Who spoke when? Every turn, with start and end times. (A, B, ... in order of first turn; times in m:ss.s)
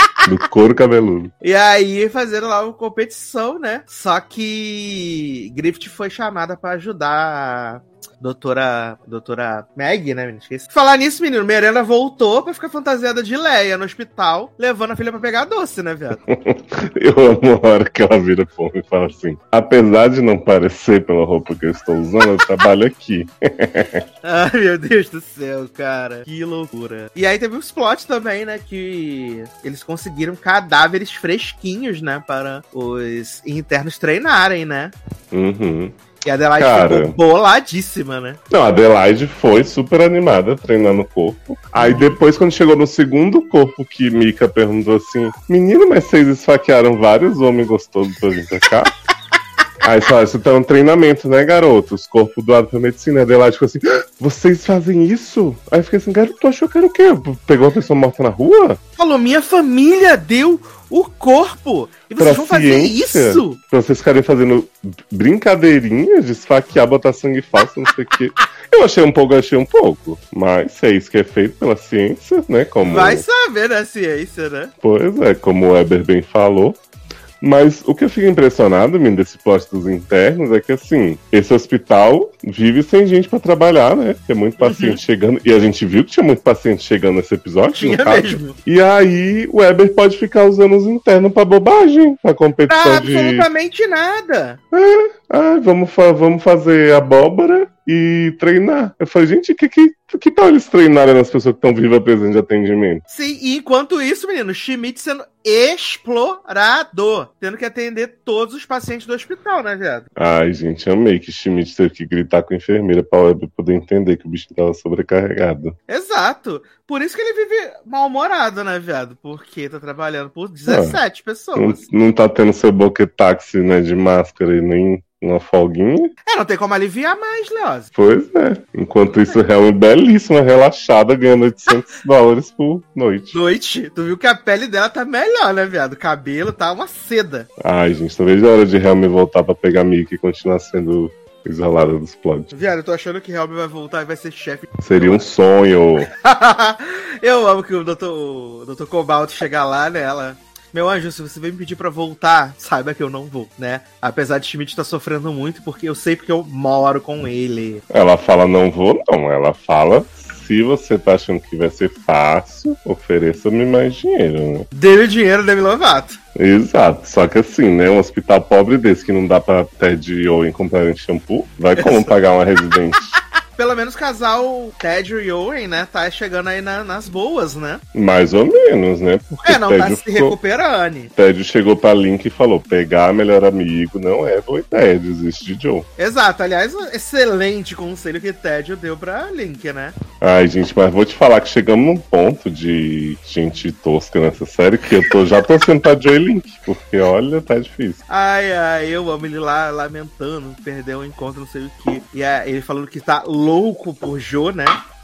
0:00.2-0:01.3 A
0:01.4-0:16.2 B
0:16.3-0:24.0 A
0:24.2-0:34.9 B
0:35.3-0:36.0 A
0:36.2-0:38.4 B
0:36.6-0:37.2 A
0:38.5-0:48.9 A
0:41.8-0:42.1 B
0:49.8-0:58.8 A
0:59.0-1:03.6 B
1:02.2-1:13.2 A
1:12.8-1:14.7 B
1:14.8-1:16.8 A
1:17.4-1:33.5 A
1:24.6-1:25.0 B
1:27.7-1:28.6 B
1:32.7-1:34.6 B
1:34.7-1:43.0 A
1:43.1-1:50.1 B
1:50.2-1:55.8 A
1:55.9-2:01.8 B
2:00.7-2:01.0 A
2:01.5-2:06.1 A
2:06.2-2:07.9 B
2:07.9-2:13.4 A
2:13.3-2:17.5 B
2:17.6-2:22.5 A
2:22.5-2:25.3 B
2:24.8-2:26.1 A
2:26.1-2:37.8 B
2:37.9-2:44.7 A
2:44.7-2:46.2 B
2:46.4-2:53.1 A
2:51.8-2:52.2 B
2:53.6-2:57.8 B
2:57.9-3:00.4 A
2:59.4-3:01.1 B
3:01.1-3:05.9 A
3:06.0-3:09.9 B
3:10.2-3:18.0 A
3:18.1-3:24.7 B